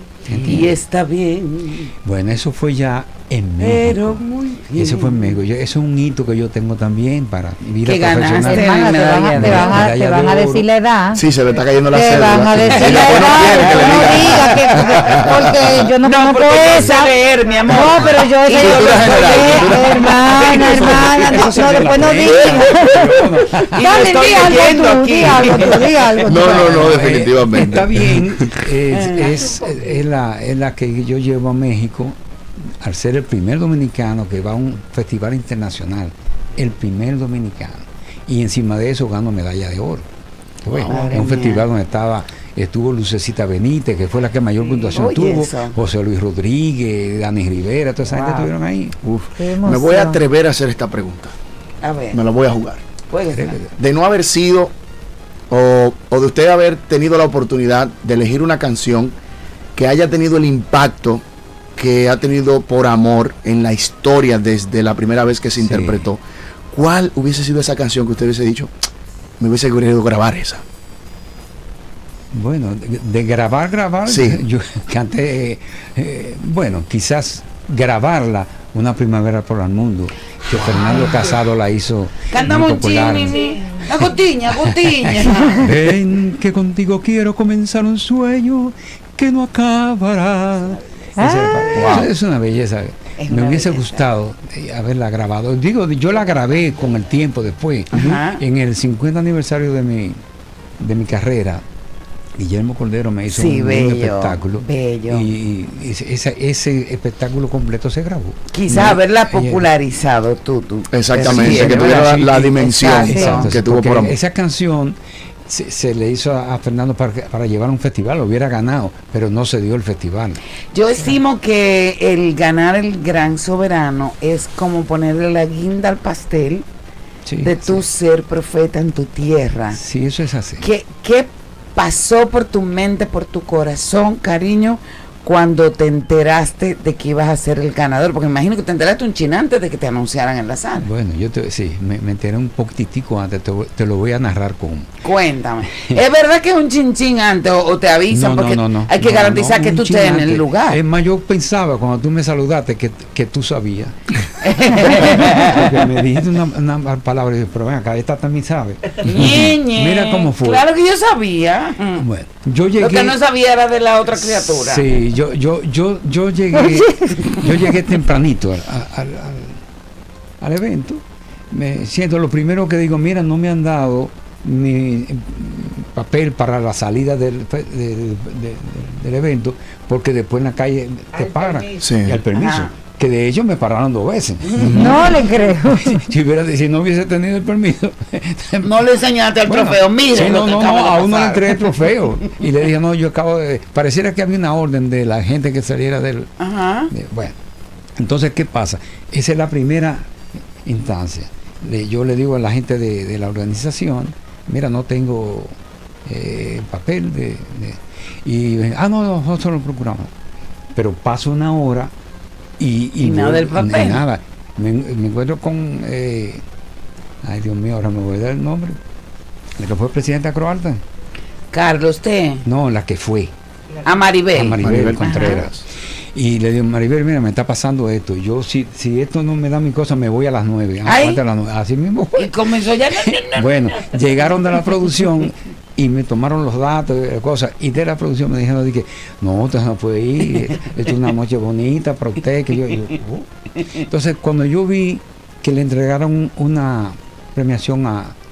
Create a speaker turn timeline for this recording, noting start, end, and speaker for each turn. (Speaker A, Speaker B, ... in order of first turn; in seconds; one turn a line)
Speaker A: 0.3-0.8
Speaker B: 0.3-1.9
Speaker A: 2.0-10.7
Speaker B: 3.6-5.4
Speaker B: 7.8-9.8
Speaker C: 8.4-11.2
Speaker D: 11.1-15.5
Speaker C: 11.9-17.1
Speaker B: 12.6-15.3
Speaker B: 16.0-22.9
Speaker C: 17.7-23.1
Speaker D: 18.5-21.1
Speaker A: 20.5-23.8
Speaker B: 23.7-26.2
Speaker C: 23.8-26.9
Speaker D: 26.2-28.3
Speaker A: 26.5-32.1
Speaker B: 28.9-29.6
Speaker A: 32.8-40.0
Speaker A: 40.6-49.0
Speaker B: 40.8-41.6
Speaker B: 44.6-45.7
Speaker B: 48.1-48.5
Speaker D: 49.0-51.3
Speaker C: 49.4-50.2
Speaker B: 51.8-52.2
Speaker D: 52.1-52.8
Speaker B: 53.1-53.6
Speaker A: 53.3-53.7
Speaker D: 53.8-54.7
Speaker D: 55.5-59.1
Speaker D: 59.7-61.2
Speaker D: 61.8-68.7
Speaker A: 65.6-66.1
Speaker D: 69.4-70.6
Speaker A: 72.3-83.4
Speaker D: 74.0-74.4
Speaker B: 80.8-81.3
Speaker B: 82.3-85.7
Speaker A: 85.0-100.2
Speaker B: 90.7-92.0
Speaker C: 91.2-91.7
Speaker D: 91.7-92.1
Speaker B: 93.2-94.1
Speaker B: 97.9-98.4
Speaker A: 100.8-101.6
Speaker A: 102.4-109.7
Speaker B: 103.3-105.2
Speaker B: 108.5-113.5
Speaker D: 110.9-114.2
Speaker A: 111.1-115.0
Speaker C: 113.1-113.4
Speaker A: 115.5-120.4
Speaker B: 120.7-126.6
Speaker A: 127.3-127.8
Speaker B: 127.4-129.8
Speaker A: 129.7-130.7
Speaker B: 130.6-140.9
Speaker A: 140.8-144.9
Speaker B: 145.0-150.8
Speaker A: 145.7-146.0
Speaker A: 148.1-153.9
Speaker B: 154.4-155.7
Speaker A: 154.7-160.7
Speaker B: 159.1-162.0
Speaker A: 162.0-163.2
Speaker B: 162.8-164.9
Speaker A: 164.1-169.6
Speaker A: 170.4-185.1
Speaker D: 181.8-182.2
Speaker B: 182.3-182.7
Speaker D: 184.6-184.9
Speaker C: 184.7-186.0
Speaker A: 185.7-188.8
Speaker B: 188.6-191.6
Speaker A: 189.4-196.3
Speaker B: 196.4-196.9
Speaker A: 196.9-197.3
Speaker A: 198.0-200.1
Speaker A: 200.6-205.5
Speaker A: 206.1-210.1
Speaker A: 210.8-211.9
Speaker A: 212.6-216.4
Speaker B: 213.0-214.0
Speaker A: 217.2-218.8
Speaker A: 219.6-220.8
Speaker B: 221.5-222.4
Speaker A: 222.4-223.3
Speaker B: 223.8-225.5
Speaker A: 224.3-225.6
Speaker D: 224.6-225.6
Speaker A: 226.1-232.4
Speaker B: 230.8-231.2
Speaker B: 232.2-233.5
Speaker A: 232.9-243.2
Speaker A: 243.9-248.1